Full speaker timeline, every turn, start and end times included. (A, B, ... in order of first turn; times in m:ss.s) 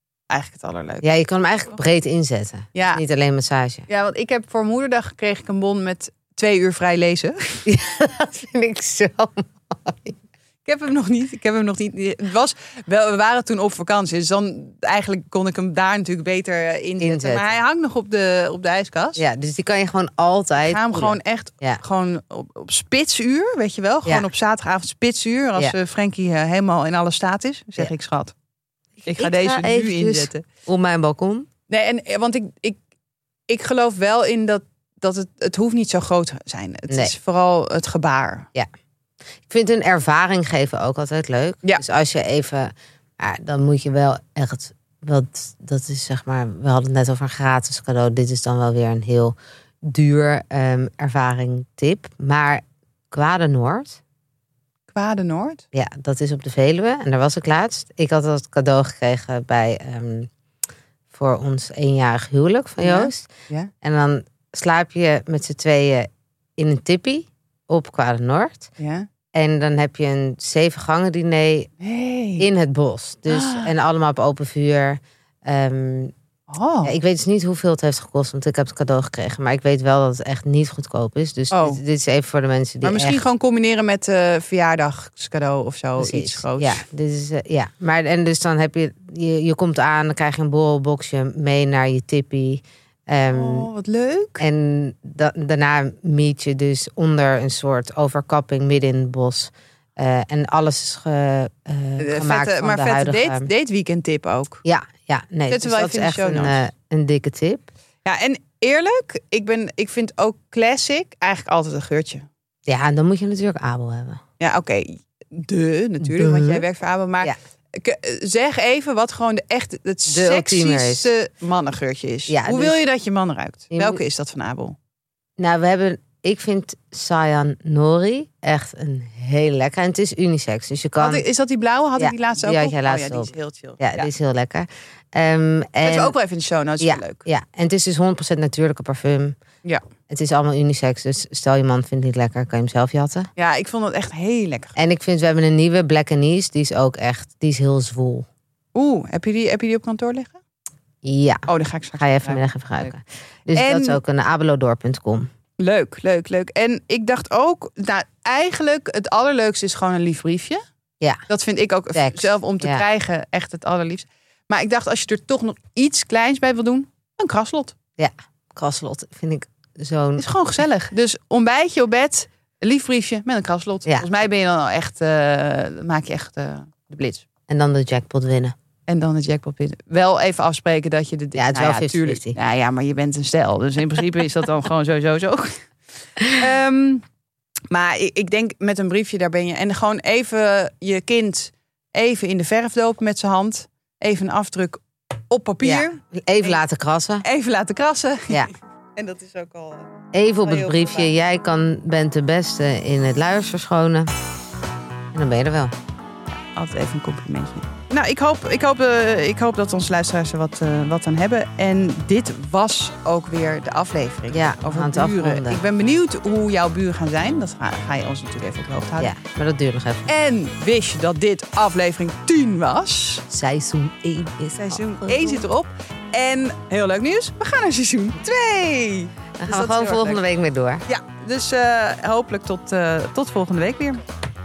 0:00.3-0:01.1 A
0:01.0-0:03.8 B
0:02.7-0:03.0 A
0:03.9-0:07.7 A
0:07.6-0:10.2 B
0:10.6-0:19.2 A
0:17.0-0:17.5 B
0:19.2-0:21.8 B
0:20.6-0:28.3 A
0:29.0-0:31.5 B
0:29.0-0:30.4 A
0:31.7-0:32.8 A
0:33.5-0:38.5 A
0:39.5-0:54.0 B
0:54.9-0:55.6 A
0:55.7-1:00.3 B
1:01.1-1:03.3 B
1:02.8-1:03.7 A
1:03.8-1:08.7 B
1:08.8-1:09.1 A
1:09.3-1:11.7 B
1:11.8-1:12.5 A
1:12.4-1:16.1 B
1:13.3-1:13.7 A
1:16.5-1:16.9 A
1:16.8-1:23.2 B
1:21.5-1:21.8 A
1:22.8-1:26.8 A
1:26.0-1:33.7 B
1:33.3-1:34.4 A
1:34.4-1:43.5 B
1:42.0-1:44.6 A
1:44.6-1:47.6 B
1:45.5-1:46.6 A
1:48.0-1:52.3 A
1:52.6-1:54.2 B
1:54.4-2:04.8 A
1:56.0-1:56.6 B
2:00.1-2:01.1 B
2:02.3-2:02.8 B
2:03.7-2:04.0 B
2:05.4-2:11.2 B
2:11.0-2:14.1 A
2:12.0-2:16.1 B
2:15.8-2:17.2 A
2:16.8-2:19.4 B
2:20.1-2:23.3 B
2:23.4-2:24.7 A
2:24.8-2:28.2 B
2:28.7-2:30.4 A
2:31.0-2:31.4 B
2:31.5-2:32.9 A
2:32.0-2:35.3 B
2:33.5-2:34.0 A
2:35.6-2:40.6 A
2:41.3-2:47.7 A
2:41.9-2:42.8 B
2:48.0-2:50.2 B
2:50.2-2:57.2 A
2:57.5-2:58.5 B
2:58.9-3:05.7 A
3:01.3-3:02.4 B
3:06.3-3:07.0 A
3:07.7-3:16.6 A
3:15.6-3:17.2 B
3:17.2-3:21.1 A
3:20.1-3:24.1 B
3:25.1-3:25.7 B
3:26.6-3:39.1 A
3:34.3-3:35.6 B
3:39.0-3:40.1 B
3:40.1-3:43.2 A
3:43.3-3:45.4 B
3:44.6-3:50.2 A
3:49.4-3:50.8 B
3:50.9-3:54.0 A